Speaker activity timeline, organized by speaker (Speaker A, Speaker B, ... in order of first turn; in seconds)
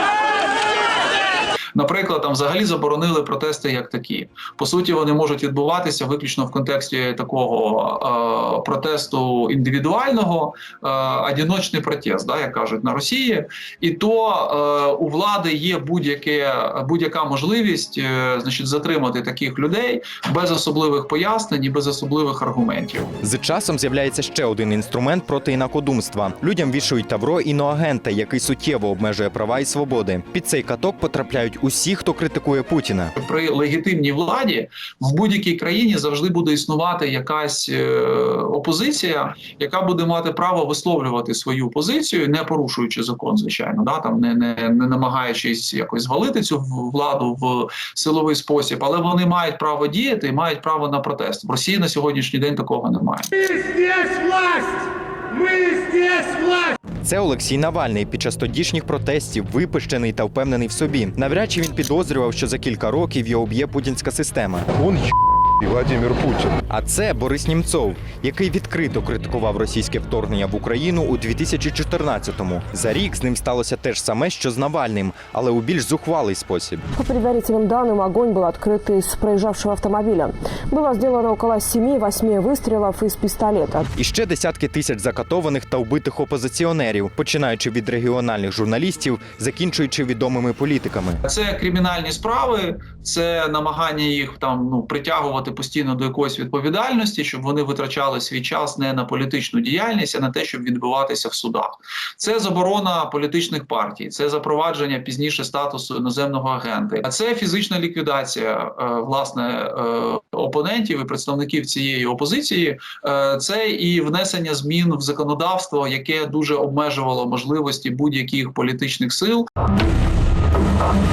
Speaker A: 1.8-23.1, 33.2-53.5, 91.2-119.5
Speaker B: 23.2-33.1, 57.0-64.7, 66.5-76.8, 84.0-91.2
Speaker C: 77.0-83.9